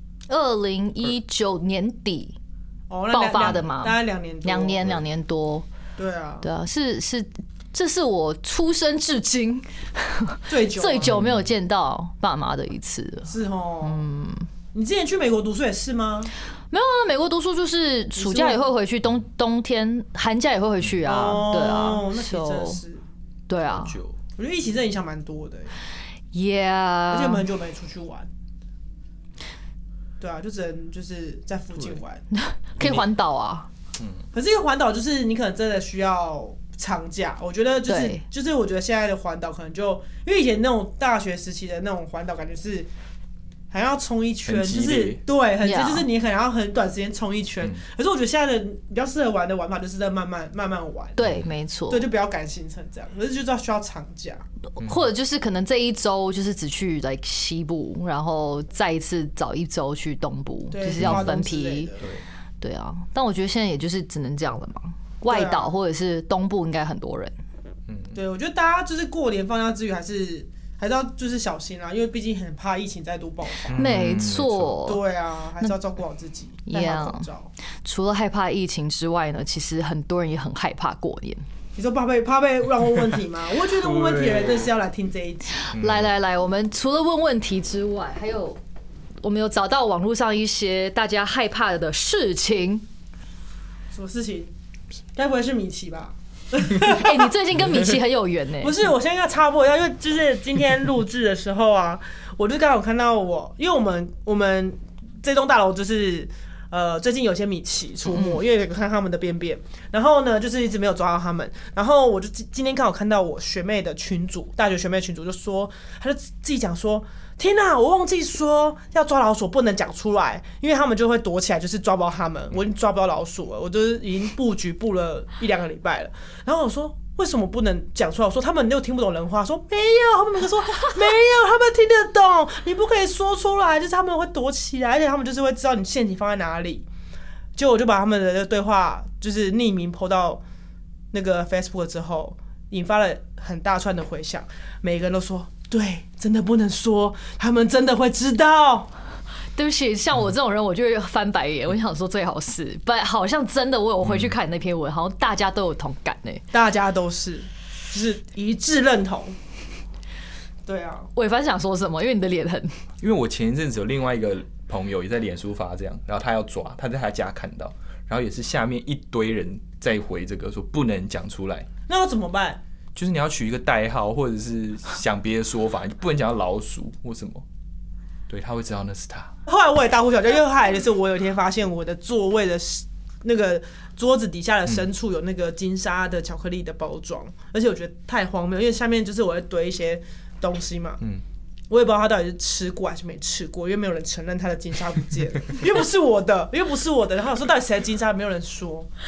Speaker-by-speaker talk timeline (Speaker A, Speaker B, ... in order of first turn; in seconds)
Speaker A: 0.3-2.4, 3.1-5.7, 6.4-14.5, 16.7-22.8, 23.5-24.0, 26.3-27.4, 32.3-33.7, 37.9-38.2, 45.6-46.1, 51.2-52.0, 54.8-61.9, 62.6-67.3, 73.8-75.0, 76.7-77.2, 77.8-81.4, 85.6-88.6, 89.2-92.8, 96.7-98.7, 149.6-156.4, 161.1-162.7
Speaker B: 2.9-5.0, 6.0-6.5, 10.5-11.1, 13.3-14.1, 14.7-16.3, 18.1-18.6, 21.0-23.0, 24.4-25.8, 27.1-28.3, 30.2-32.2, 34.3-42.9, 43.7-51.2, 51.9-54.4, 60.7-62.1, 65.3-65.7, 68.1-73.8, 74.9-77.5, 81.8-85.6, 93.9-94.5, 95.2-97.3, 98.6-136.9, 137.6-140.4, 141.1-148.9, 156.5-159.4, 160.7-161.1, 171.9-172.6, 179.5-191.0, 191.7-198.9
Speaker C: 11.1-11.5, 23.6-24.2, 34.0-34.2, 44.4-45.2, 51.2-51.5, 61.0-61.3, 67.9-68.2, 73.7-74.8, 83.7-84.7, 85.8-86.1, 154.0-154.3, 163.0-171.7, 172.9-177.4, 178.3-179.3